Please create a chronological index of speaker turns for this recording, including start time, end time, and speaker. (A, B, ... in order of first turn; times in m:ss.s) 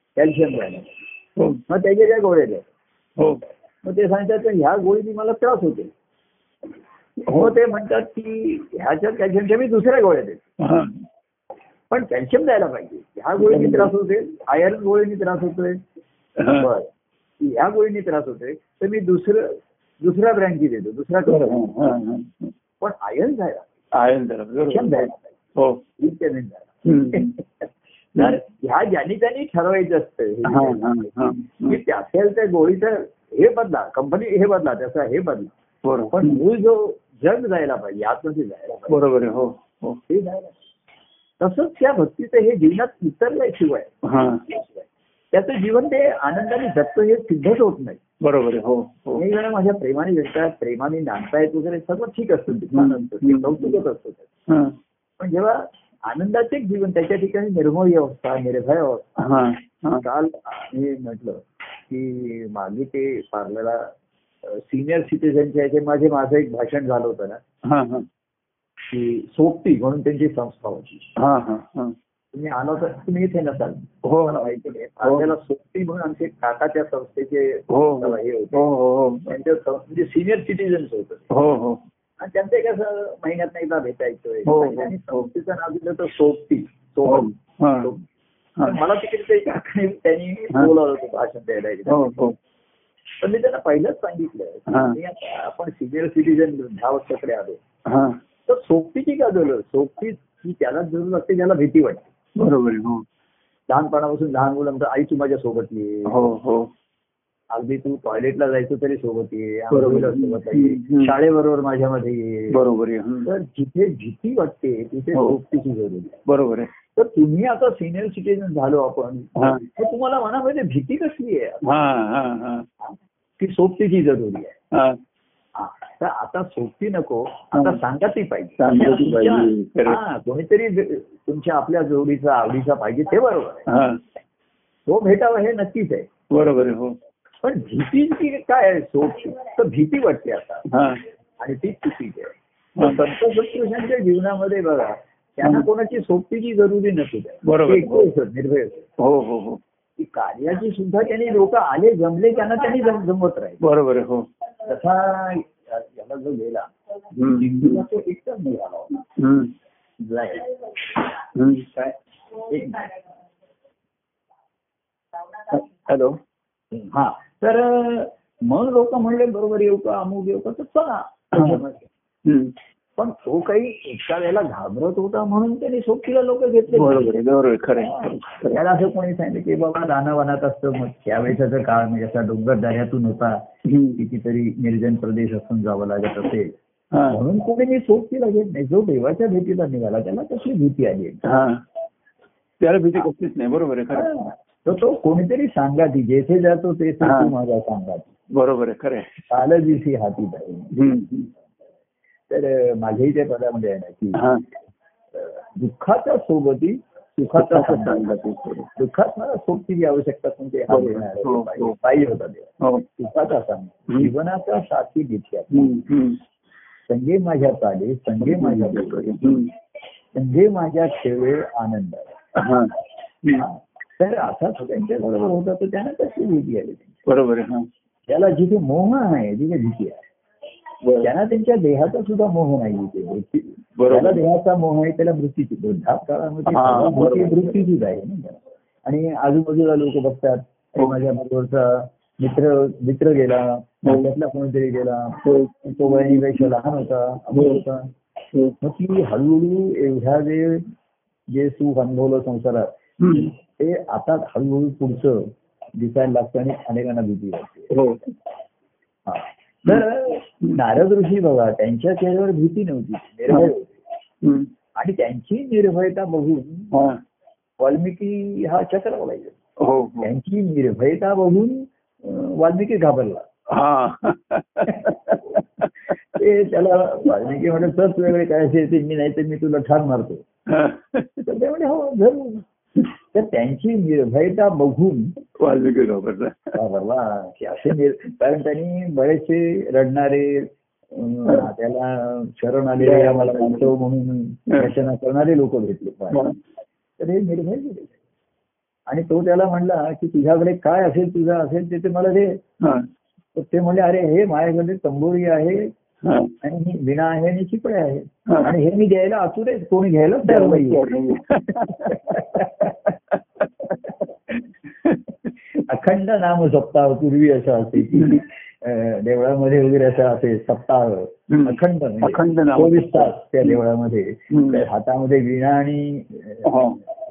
0:00.2-0:00.9 A
0:01.4-0:01.6 B
0:01.7-0:02.7 A
0:03.2-0:03.4 B
0:03.8-0:05.9 A
0:07.2-0:10.5 A
0:07.3-0:07.5 B
0:10.6-0:11.0 B
0:11.9-0:15.8 A
0:13.4-0:13.9 B
0:16.4-0:16.7 B
0:16.5-0:16.9 A
0:17.4-0:21.8 A
0:21.2-0:22.5 B
0:22.8-0:23.7 A
0:23.9-0:25.8 B
0:24.6-0:25.4 A
0:26.0-0:35.5 A
0:26.8-0:27.3 B
0:30.4-0:31.8 B
0:35.8-0:36.4 B
0:36.1-0:39.1 A
0:38.9-0:40.0 B
0:40.1-0:40.5 A
0:41.4-0:48.0 A
0:44.0-0:44.4 B
0:48.2-0:49.2 B
0:49.1-0:54.3 A
0:52.7-0:53.8 B
0:54.5-0:54.8 B
0:55.2-0:59.1 A
0:59.2-1:00.0 B
1:00.0-1:07.4 A
1:07.6-1:08.0 B
1:08.9-1:11.1 A
1:11.2-1:11.9 B
1:12.3-1:18.7 A
1:14.0-1:15.3 B
1:17.7-1:19.3 B
1:19.2-1:21.3 A
1:21.3-1:21.8 B
1:22.2-1:28.0 A
1:24.4-1:25.3 B
1:27.0-1:27.9 B
1:28.6-1:32.2 A
1:31.9-1:32.4 B
1:33.2-1:37.6 A
1:34.7-1:35.0 B
1:37.8-1:38.2 B
1:38.5-1:42.1 A
1:42.4-1:43.0 B
1:43.7-1:46.3 A
1:46.1-1:46.7 B
1:47.5-1:52.6 A
1:49.7-1:51.1 B
1:52.5-1:53.3 B
1:53.2-1:56.2 A
1:56.2-1:56.7 B
1:57.0-2:01.7 A
1:59.4-1:59.6 B
2:01.6-2:02.7 B
2:02.8-2:04.6 A
2:04.7-2:05.0 B
2:05.6-2:13.7 A
2:07.5-2:07.8 B
2:08.6-2:10.0 B
2:13.7-2:14.0 B
2:14.9-2:16.1 A
2:16.3-2:17.0 B
2:17.4-2:20.7 A
2:20.7-2:21.0 B
2:21.4-2:28.9 A
2:27.4-2:28.1 B
2:29.0-2:29.6 B
2:30.0-2:33.6 A
2:33.6-2:34.3 B
2:34.6-2:36.7 A
2:37.1-2:37.8 B
2:37.3-2:39.0 A
2:39.2-2:39.5 B
2:40.0-2:41.0 A
2:41.3-2:41.7 B
2:41.7-2:42.9 A
2:45.5-2:46.2 B
2:46.7-2:51.9 A
2:51.3-2:51.6 B
2:52.2-2:52.5 B
2:53.0-2:57.2 A
2:56.7-2:58.6 B
2:57.9-3:06.6 A
3:03.6-3:04.0 B
3:06.9-3:07.2 B
3:07.1-3:11.2 A
3:11.2-3:11.6 B
3:12.6-3:14.1 B
3:13.9-3:18.1 A
3:17.0-3:17.3 B
3:18.3-3:19.3 B
3:19.3-3:20.8 A
3:20.7-3:21.3 B
3:22.3-3:24.2 A
3:24.1-3:24.4 B
3:25.1-3:28.2 A
3:27.3-3:28.7 B
3:28.8-3:35.8 A
3:30.7-3:31.8 B
3:32.6-3:32.8 B
3:35.5-3:36.2 B
3:36.9-3:39.2 A
3:38.2-3:39.5 B
3:40.1-3:42.1 A
3:42.4-3:43.4 B
3:43.3-3:47.0 A
3:47.0-3:47.7 B
3:48.1-3:50.0 A
3:50.8-3:51.1 B
3:51.0-4:07.9 A
3:53.8-3:54.2 B
3:56.5-3:57.6 B
4:03.8-4:04.1 B
4:05.2-4:06.5 B
4:07.3-4:07.6 B
4:08.6-4:10.7 A
4:11.3-4:17.7 A
4:13.0-4:13.3 B
4:17.7-4:18.0 B
4:19.0-4:23.8 A
4:24.2-4:24.5 B
4:24.8-4:26.8 A
4:26.7-4:27.0 B
4:27.6-4:29.4 A
4:29.6-4:30.1 B
4:30.0-4:33.3 A
4:33.5-4:35.7 B
4:34.7-4:35.4 A
4:36.0-4:40.2 A
4:40.5-4:41.2 B
4:41.2-4:45.1 A
4:45.4-4:46.6 B
4:46.5-4:56.3 A
4:52.8-4:53.7 B
4:57.0-4:58.0 A
4:58.9-5:02.4 A
5:02.6-5:02.9 B
5:03.3-5:05.7 A
5:06.0-5:06.3 B
5:06.4-5:10.9 A
5:08.3-5:08.5 B
5:10.2-5:12.5 B
5:11.5-5:12.9 A
5:13.1-5:15.0 B
5:15.6-5:26.8 A
5:17.9-5:18.2 B
5:21.3-5:23.5 B
5:24.3-5:24.6 B
5:26.4-5:26.8 B